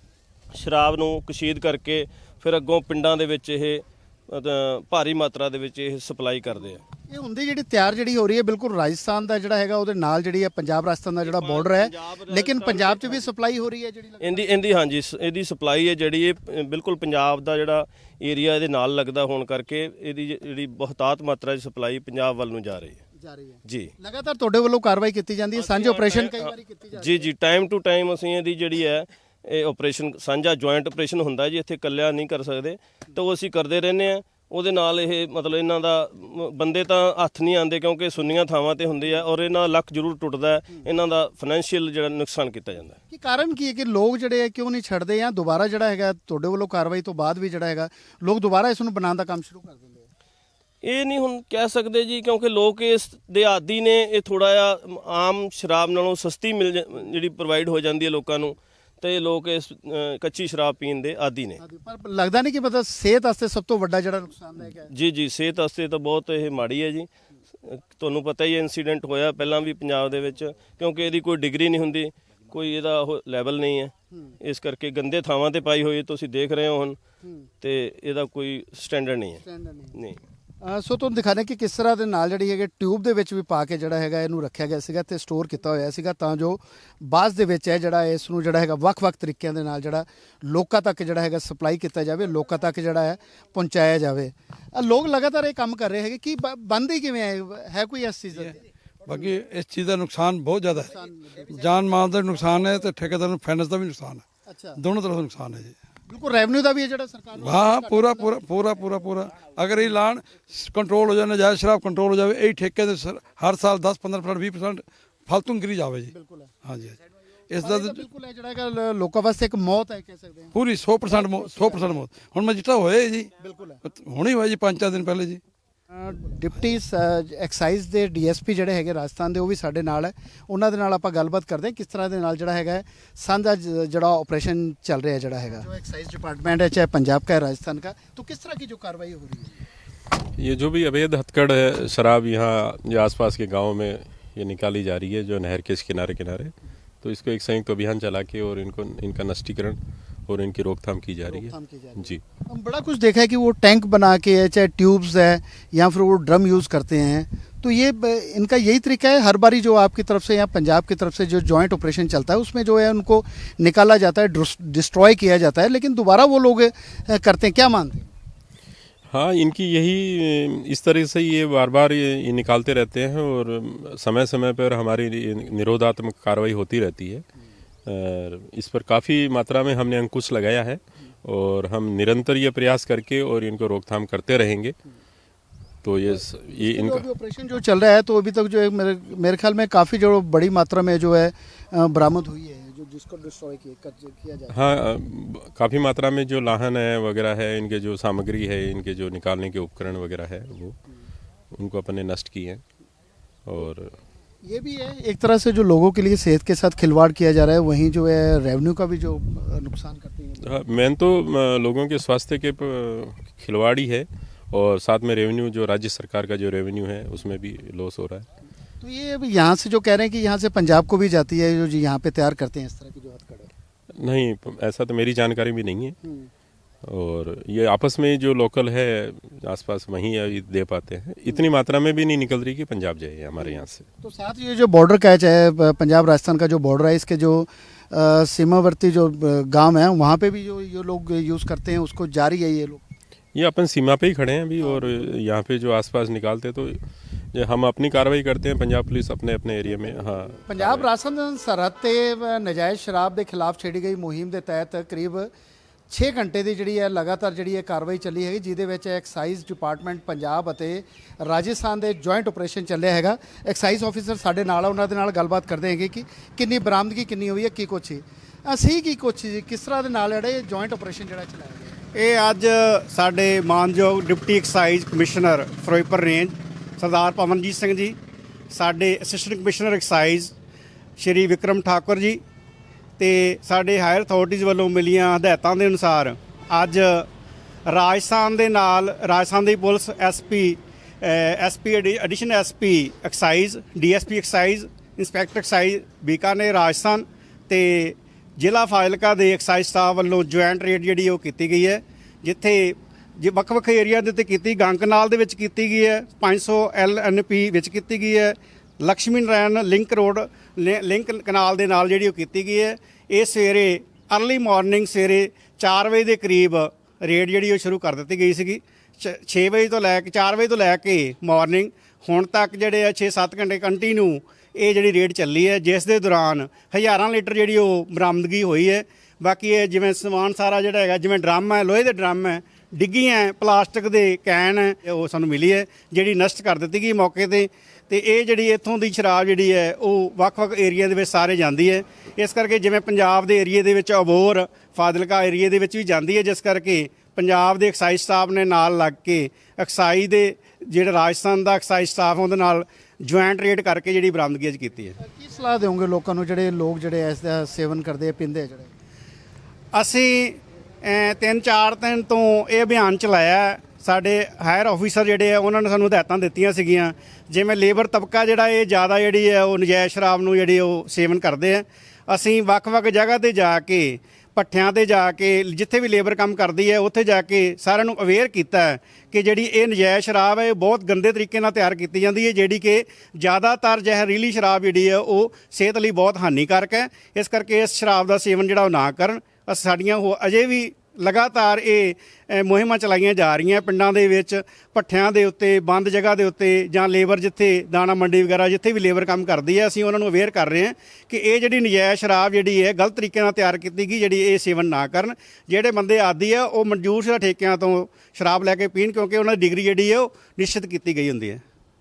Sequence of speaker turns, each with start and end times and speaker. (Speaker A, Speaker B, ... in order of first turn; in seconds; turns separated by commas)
Speaker A: 0.5-6.8, Speaker B: 7.1-14.5, Speaker A: 11.2-13.3, Speaker A: 14.2-23.0, Speaker B: 23.2-27.3, Speaker A: 25.6-43.0, Speaker B: 43.1-50.1, Speaker A: 50.8-61.6, Speaker B: 61.6-64.9, Speaker A: 64.9-67.1, Speaker A: 67.6-77.0, Speaker A: 77.6-79.4, Speaker B: 79.4-79.9, Speaker A: 79.9-80.2, Speaker B: 80.6-98.6, Speaker C: 99.0-100.9, Speaker B: 99.1-99.3, Speaker B: 100.8-101.7, Speaker C: 101.5-104.2, Speaker B: 104.5-104.8, Speaker C: 104.8-105.8, Speaker B: 106.1-108.4, Speaker C: 107.4-116.1, Speaker B: 116.1-116.5, Speaker C: 116.6-117.0, Speaker C: 117.5-118.0, Speaker B: 117.6-120.5, Speaker C: 120.5-123.3, Speaker B: 121.0-121.9, Speaker B: 123.4-123.8, Speaker C: 123.8-125.4, Speaker B: 125.9-139.6, Speaker D: 140.4-152.2, Speaker B: 151.2-168.1, Speaker D: 169.1-177.2, Speaker D: 177.8-184.7, Speaker D: 185.8-187.0, Speaker B: 186.1-194.7, Speaker D: 194.5-200.8, Speaker D: 201.5-202.6, Speaker D: 203.4-203.9, Speaker B: 204.4-210.4, Speaker D: 210.4-218.3, Speaker B: 218.8-223.5, Speaker D: 224.0-225.9, Speaker D: 226.8-233.8, Speaker B: 233.4-242.8, Speaker D: 243.3-250.8, Speaker B: 244.6-245.1, Speaker B: 250.4-255.3, Speaker B: 255.9-271.8, Speaker E: 271.9-277.9, Speaker E: 278.5-280.3, Speaker E: 281.0-282.2, Speaker E: 283.0-287.1, Speaker E: 287.7-354.9, Speaker B: 355.0-358.7, Speaker E: 359.7-411.4